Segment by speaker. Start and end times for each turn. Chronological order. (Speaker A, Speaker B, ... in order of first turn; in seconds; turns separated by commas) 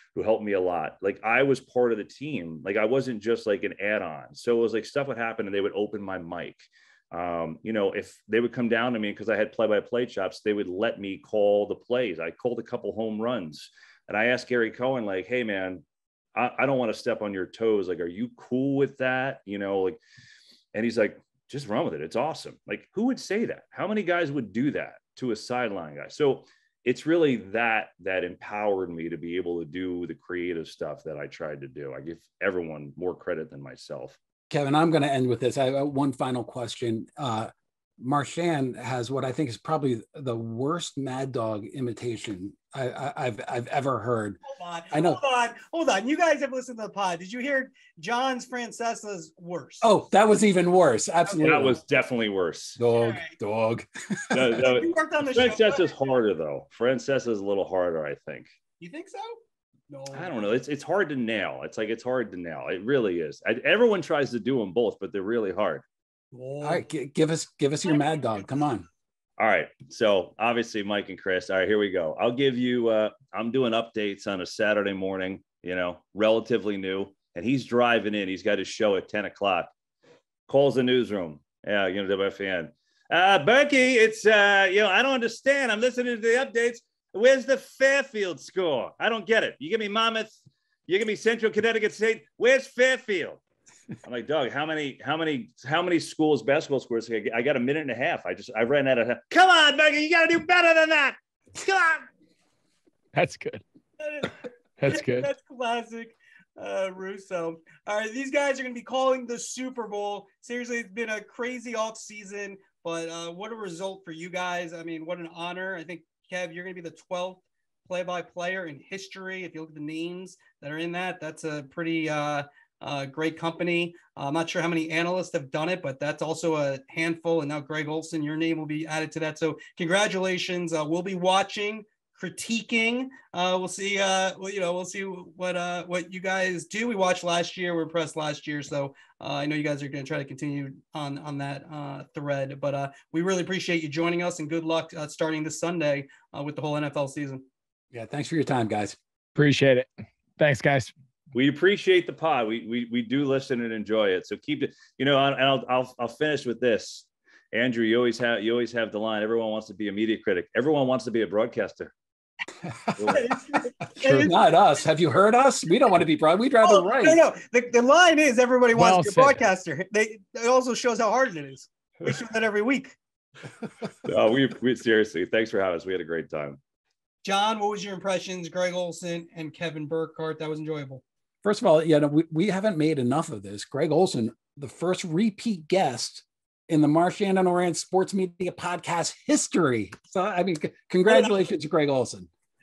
Speaker A: 0.1-15.8, Speaker A: 16.3-20.0, Speaker A: 20.7-34.2, Speaker B: 34.5-44.4, Speaker C: 44.5-49.9, Speaker B: 44.9-45.2, Speaker B: 49.8-51.8, Speaker A: 51.4-52.8, Speaker B: 52.8-54.6, Speaker C: 52.9-53.4, Speaker A: 54.3-58.5, Speaker C: 54.6-55.9, Speaker C: 58.8-59.4, Speaker C: 59.9-60.5, Speaker A: 60.1-65.8, Speaker C: 66.3-66.8, Speaker B: 66.6-68.8, Speaker C: 67.9-68.4, Speaker A: 69.4-79.7, Speaker A: 80.5-90.3, Speaker A: 90.9-93.4, Speaker A: 94.0-102.0, Speaker D: 103.1-103.6, Speaker C: 104.0-147.4, Speaker D: 104.8-105.3, Speaker B: 147.9-149.0, Speaker D: 149.3-150.9, Speaker A: 151.3-161.9, Speaker A: 162.9-163.3, Speaker C: 163.1-164.5, Speaker D: 164.0-164.3, Speaker B: 164.1-167.2, Speaker C: 166.6-172.9, Speaker D: 168.7-169.4, Speaker A: 174.0-176.6, Speaker C: 177.2-181.0, Speaker B: 181.4-192.3, Speaker C: 191.1-191.4